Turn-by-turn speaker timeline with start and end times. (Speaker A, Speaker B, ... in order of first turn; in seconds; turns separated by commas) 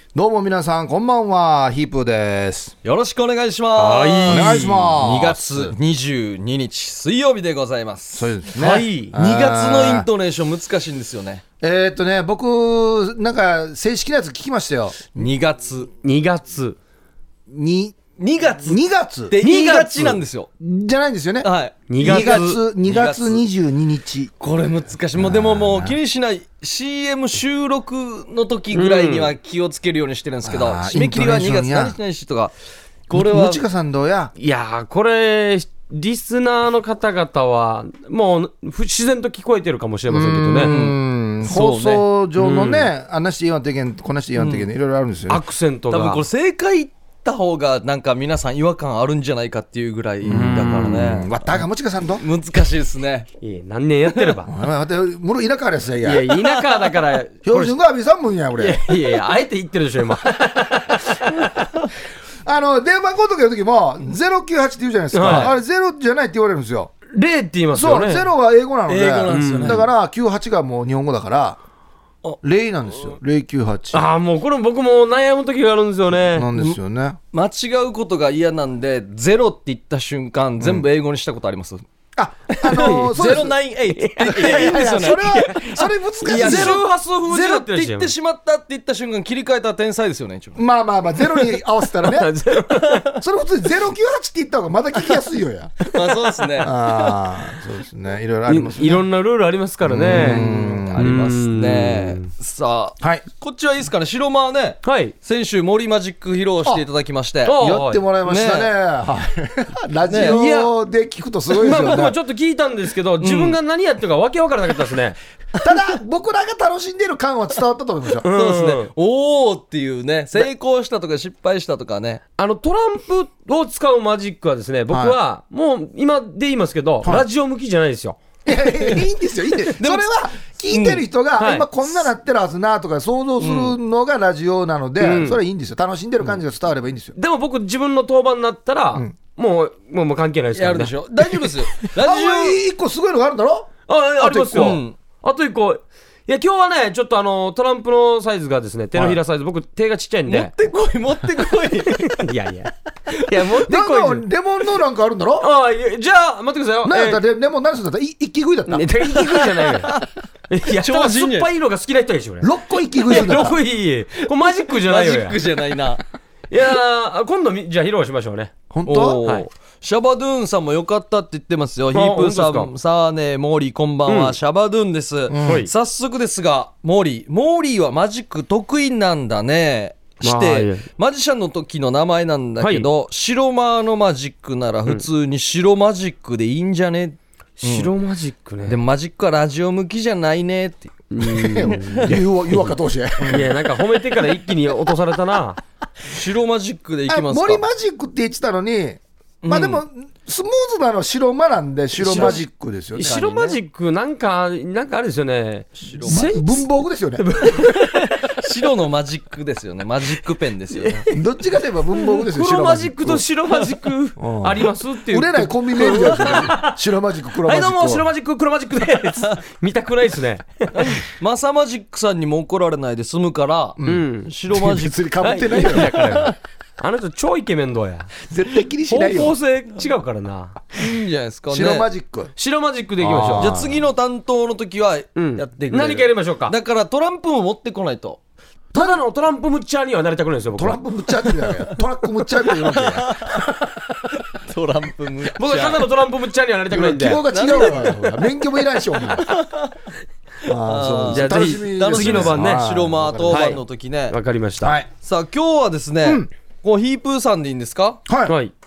Speaker A: 0.1-2.7, Speaker B: 2.8-11.4, Speaker C: 3.8-4.9, Speaker A: 4.2-5.7, Speaker A: 8.1-10.1, Speaker C: 8.6-9.1, Speaker A: 11.6-15.1, Speaker B: 15.1-15.9, Speaker C: 16.0-16.8, Speaker A: 17.5-18.0, Speaker B: 18.2-20.5, Speaker A: 18.6-19.3, Speaker C: 19.4-20.2, Speaker A: 20.6-21.5, Speaker B: 21.4-23.4, Speaker C: 21.9-22.6, Speaker A: 22.0-24.3, Speaker B: 24.4-32.5, Speaker A: 25.1-26.0, Speaker C: 28.7-29.3, Speaker A: 30.4-32.0, Speaker B: 33.1-33.6, Speaker A: 33.1-34.3, Speaker C: 34.4-40.7, Speaker A: 40.1-45.4, Speaker B: 40.6-42.0, Speaker C: 42.4-42.9, Speaker C: 45.3-46.2, Speaker B: 45.9-51.6, Speaker A: 50.2-52.2, Speaker C: 50.3-51.1, Speaker B: 52.2-53.3, Speaker C: 53.4-54.5, Speaker A: 54.5-56.7, Speaker C: 56.0-57.8, Speaker A: 57.4-58.9, Speaker C: 58.6-61.5, Speaker A: 62.4-66.9, Speaker C: 65.1-65.5, Speaker B: 65.2-65.5, Speaker C: 67.1-68.3, Speaker A: 67.7-71.6, Speaker B: 68.9-69.8, Speaker C: 69.3-69.8, Speaker A: 72.4-74.0, Speaker C: 73.9-76.5, Speaker A: 76.2-77.2, Speaker B: 77.3-81.8, Speaker A: 80.6-80.8, Speaker A: 82.2-83.5, Speaker B: 82.5-85.7, Speaker C: 82.8-83.4, Speaker C: 83.9-88.1, Speaker A: 84.2-86.8, Speaker B: 86.2-90.6, Speaker A: 90.5-92.3, Speaker C: 91.9-93.1, Speaker B: 92.7-93.1, Speaker A: 93.1-95.8, Speaker B: 95.8-96.8, Speaker A: 96.6-99.0, Speaker C: 98.5-102.3, Speaker A: 99.8-101.1, Speaker B: 100.0-107.5, Speaker C: 104.8-105.1, Speaker C: 107.4-108.0, Speaker A: 107.6-112.2, Speaker B: 108.2-108.7, Speaker B: 110.1-110.4, Speaker C: 110.2-110.7, Speaker C: 111.5-115.2, Speaker B: 113.2-113.6, Speaker A: 115.6-118.2, Speaker C: 118.2-118.9, Speaker B: 118.3-122.2, Speaker C: 122.4-128.2, Speaker A: 124.9-125.2, Speaker A: 128.4-137.1, Speaker B: 128.8-129.0, Speaker B: 129.8-130.1, Speaker B: 130.7-131.0, Speaker C: 131.4-131.7, Speaker B: 133.4-133.8, Speaker C: 135.0-135.4, Speaker C: 137.2-140.9, Speaker B: 140.6-142.6, Speaker A: 142.0-143.7, Speaker C: 143.9-150.5, Speaker B: 144.2-145.0, Speaker A: 144.3-144.8, Speaker A: 148.9-149.2, Speaker B: 150.2-152.1, Speaker C: 151.9-154.2, Speaker A: 153.6-155.5, Speaker C: 155.4-157.2, Speaker A: 156.8-158.9, Speaker C: 158.7-162.5, Speaker B: 159.2-160.1, Speaker B: 160.7-161.5, Speaker A: 162.4-163.6, Speaker C: 163.1-165.5, Speaker B: 163.1-163.5, Speaker B: 164.2-166.0, Speaker C: 166.5-168.5, Speaker A: 168.7-169.2, Speaker B: 168.8-187.9, Speaker C: 171.9-172.7, Speaker C: 174.1-174.3, Speaker A: 175.3-175.7, Speaker C: 175.4-175.7, Speaker C: 180.2-180.8, Speaker C: 182.6-182.9, Speaker C: 187.6-188.8, Speaker B: 188.7-192.1, Speaker C: 191.1-192.2, Speaker A: 191.3-193.5, Speaker B: 193.2-193.5, Speaker C: 193.3-195.6, Speaker B: 196.1-197.6, Speaker A: 197.1-203.2, Speaker B: 199.4-199.8, Speaker B: 202.0-202.4, Speaker C: 202.9-206.7, Speaker B: 203.0-203.6, Speaker B: 205.8-206.3, Speaker A: 206.1-207.6, Speaker C: 207.2-208.3, Speaker B: 208.3-211.1, Speaker C: 210.8-211.2, Speaker A: 211.1-213.2, Speaker C: 211.9-216.8, Speaker A: 214.2-218.1, Speaker C: 217.4-220.9, Speaker B: 220.7-226.3, Speaker A: 223.8-226.0, Speaker C: 223.8-224.3, Speaker C: 225.2-228.1, Speaker A: 228.2-229.3, Speaker C: 228.9-230.6, Speaker B: 230.7-231.9, Speaker A: 231.5-232.3, Speaker C: 232.4-233.6, Speaker A: 233.0-233.8, Speaker B: 233.4-238.2, Speaker C: 235.2-236.5, Speaker A: 238.7-239.0, Speaker C: 238.7-240.8, Speaker A: 240.6-244.2, Speaker B: 242.7-243.4, Speaker B: 244.4-245.8, Speaker C: 245.3-247.2, Speaker A: 246.7-249.3, Speaker B: 247.3-248.4, Speaker B: 248.9-249.7, Speaker A: 250.4-253.6, Speaker B: 250.6-254.2, Speaker C: 251.1-252.6, Speaker C: 253.3-253.6, Speaker C: 254.1-254.8, Speaker A: 254.6-254.9, Speaker B: 255.0-258.0, Speaker A: 258.1-258.4, Speaker C: 258.3-258.5